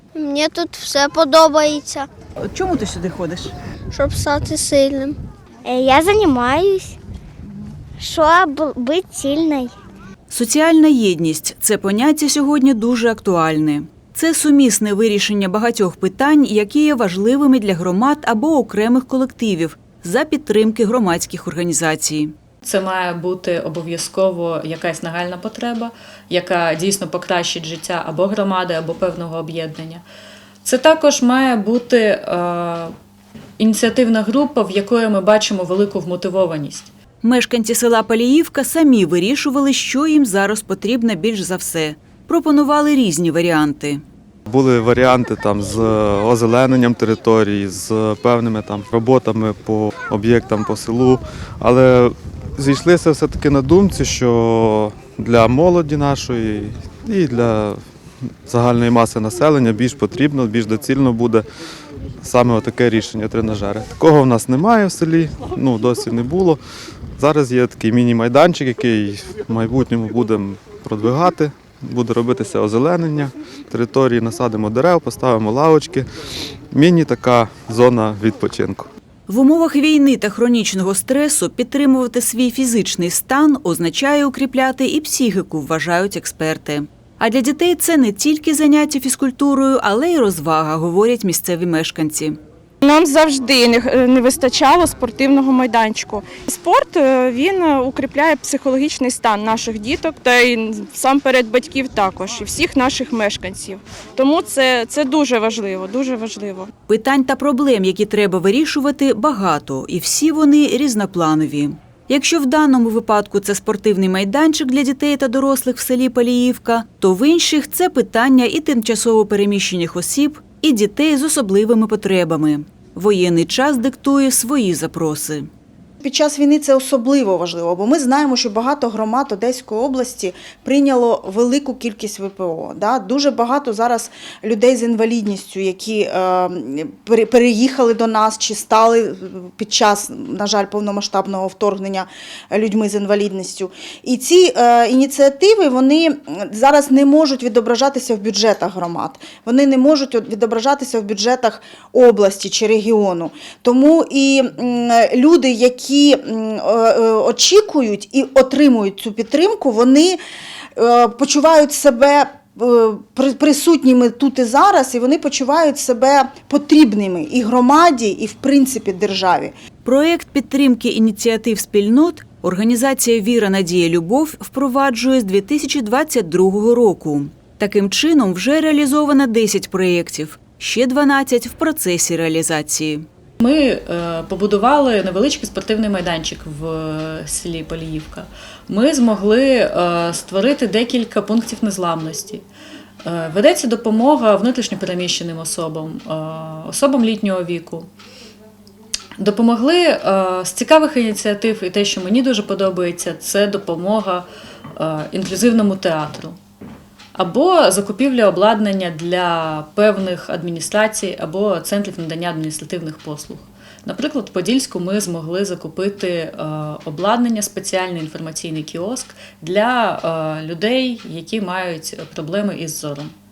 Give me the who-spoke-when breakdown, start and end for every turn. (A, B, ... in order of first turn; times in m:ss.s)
0:00.2-0:02.1 A
0:02.4-0:03.5 B
0:03.9-0:05.2 A
0:05.6-0:07.0 C
0:08.0-0:09.7 C
0:10.3-0:22.3 B
0:22.6-0:30.0 D
0:30.6-0:32.9 D
0:33.6-0:36.9 D
0:37.2-0:44.0 B
0:44.5-0:57.8 E
0:58.5-1:01.4 E
1:02.2-1:06.6 E
1:07.2-1:16.1 E
1:16.7-1:18.9 E
1:19.3-1:32.4 B
1:32.8-1:46.7 F
1:46.9-2:05.5 B
2:06.0-2:40.2 G
2:40.8-2:49.5 G
2:49.8-3:03.1 B
3:03.4-3:12.4 D
3:13.0-3:17.9 D
3:19.2-3:26.4 D
3:27.2-3:43.1 D